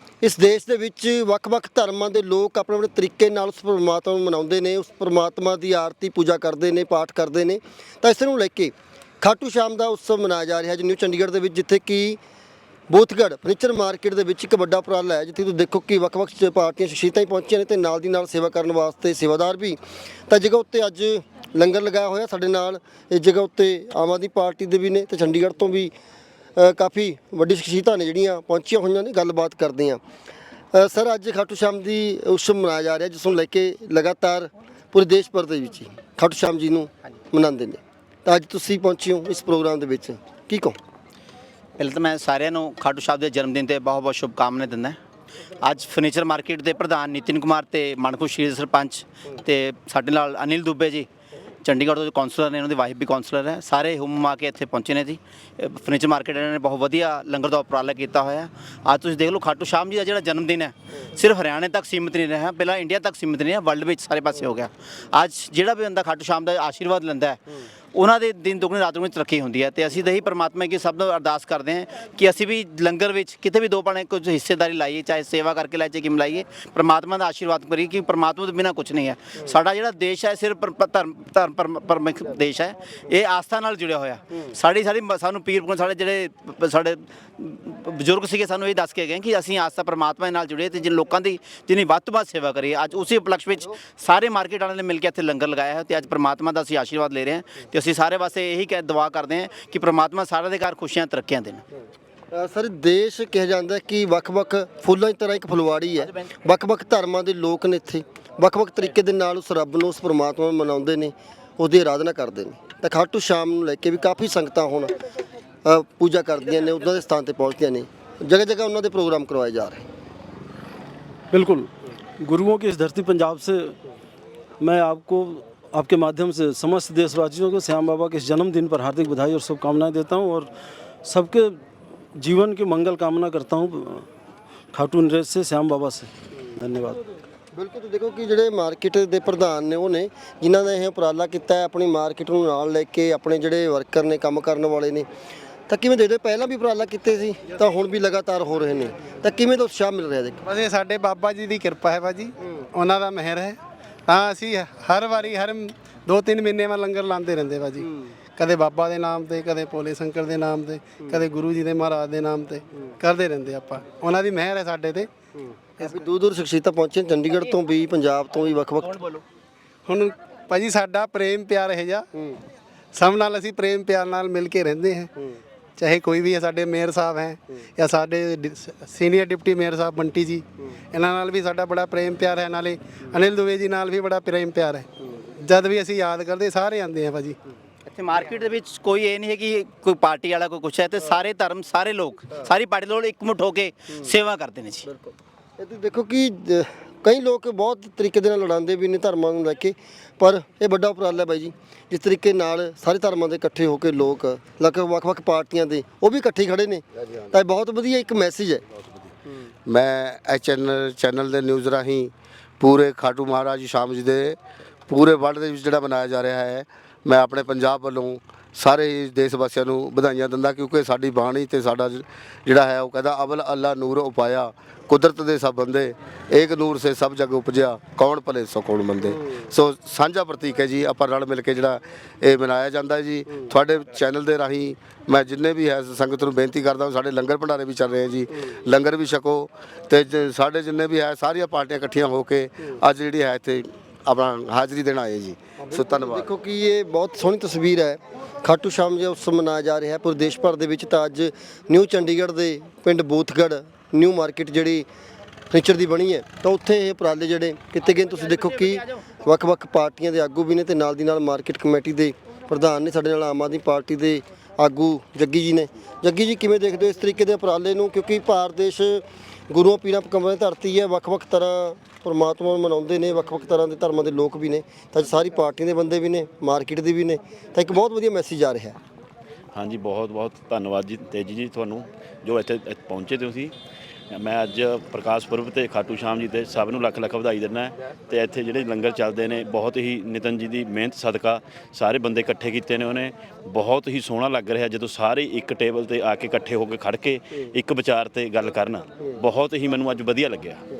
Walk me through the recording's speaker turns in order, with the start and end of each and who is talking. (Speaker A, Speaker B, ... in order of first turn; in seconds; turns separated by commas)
Speaker A: 0.2-12.2, Speaker A: 12.9-25.9, Speaker A: 26.6-30.0, Speaker A: 30.7-40.8, Speaker B: 41.8-45.0, Speaker B: 45.6-51.1, Speaker B: 51.6-67.4, Speaker B: 67.9-101.6, Speaker A: 102.3-114.9, Speaker A: 115.7-119.9, Speaker C: 121.3-123.8, Speaker C: 124.6-130.5, Speaker C: 131.1-131.6, Speaker C: 132.2-134.1, Speaker C: 134.7-137.0, Speaker A: 137.5-145.1, Speaker A: 145.7-150.4, Speaker D: 150.4-157.8, Speaker D: 158.4-165.1, Speaker A: 165.8-169.2, Speaker D: 169.9-172.0, Speaker D: 172.9-175.1, Speaker D: 175.8-184.8, Speaker D: 185.4-187.3, Speaker B: 187.9-194.9, Speaker A: 194.9-208.6, Speaker E: 209.7-246.3, Speaker A: 245.6-254.9, Speaker A: 255.5-278.8, Speaker F: 279.5-283.5, Speaker F: 284.1-300.6